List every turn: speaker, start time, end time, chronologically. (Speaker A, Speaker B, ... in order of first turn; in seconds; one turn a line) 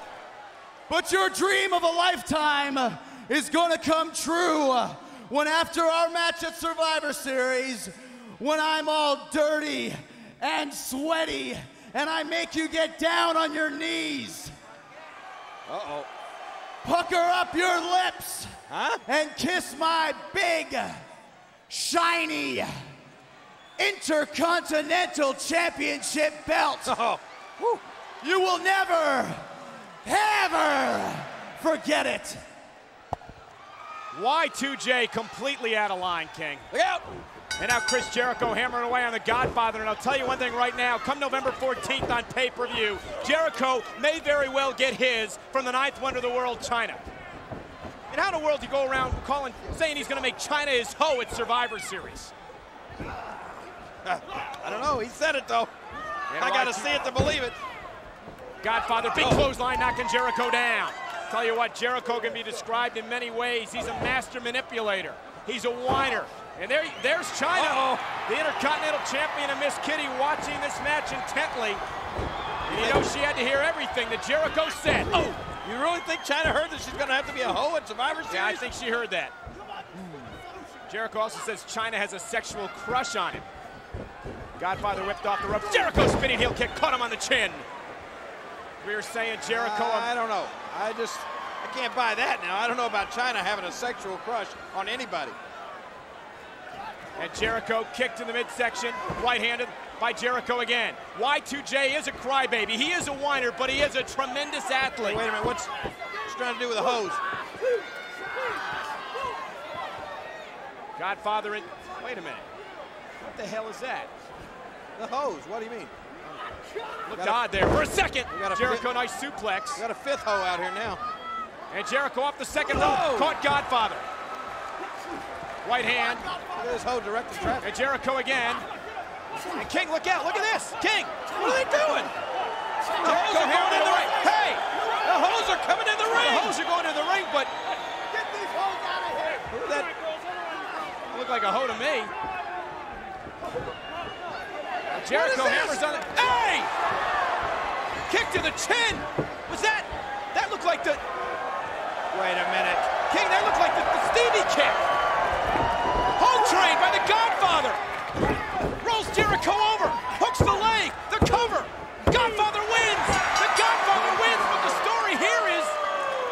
Speaker A: 0.9-14.5
Speaker B: 15.7-16.1
Speaker A: 16.8-18.5
Speaker B: 18.7-19.0
Speaker A: 19.1-21.0
Speaker A: 21.7-22.7
Speaker A: 23.8-27.0
Speaker B: 26.9-27.8
Speaker A: 28.2-29.4
Speaker A: 30.0-32.4
Speaker C: 34.1-36.6
Speaker B: 36.7-37.1
Speaker C: 37.6-47.0
Speaker C: 48.1-52.3
Speaker B: 54.0-55.7
Speaker C: 56.3-57.1
Speaker B: 56.4-57.6
Speaker C: 58.6-71.8
Speaker B: 59.2-59.5
Speaker B: 67.5-68.0
Speaker B: 72.7-73.0
Speaker C: 72.7-75.2
Speaker B: 75.1-78.7
Speaker C: 78.3-79.3
Speaker B: 79.9-80.3
Speaker C: 80.9-83.4
Speaker C: 84.6-87.7
Speaker C: 88.8-90.1
Speaker B: 89.4-95.4
Speaker C: 97.2-105.2
Speaker B: 105.0-105.7
Speaker B: 106.2-107.2
Speaker C: 111.0-112.5
Speaker C: 113.2-114.1
Speaker B: 115.0-115.9
Speaker C: 117.1-119.8
Speaker B: 117.1-117.5
Speaker B: 118.3-118.9
Speaker B: 119.7-121.0
Speaker C: 121.7-124.0
Speaker B: 122.6-123.4
Speaker C: 125.6-126.2
Speaker B: 126.6-127.7
Speaker C: 127.6-128.6
Speaker C: 129.5-132.1
Speaker B: 131.1-132.1
Speaker B: 132.9-134.3
Speaker C: 132.9-134.6
Speaker B: 135.0-136.6
Speaker C: 136.0-137.5
Speaker A: 138.6-139.2
Speaker B: 139.5-139.9
Speaker C: 141.1-142.1
Speaker B: 144.9-146.0
Speaker C: 145.0-146.7
Speaker C: 148.1-151.0
Speaker B: 152.1-152.9
Speaker C: 152.9-154.9
Speaker C: 156.2-157.8
Speaker C: 158.6-165.8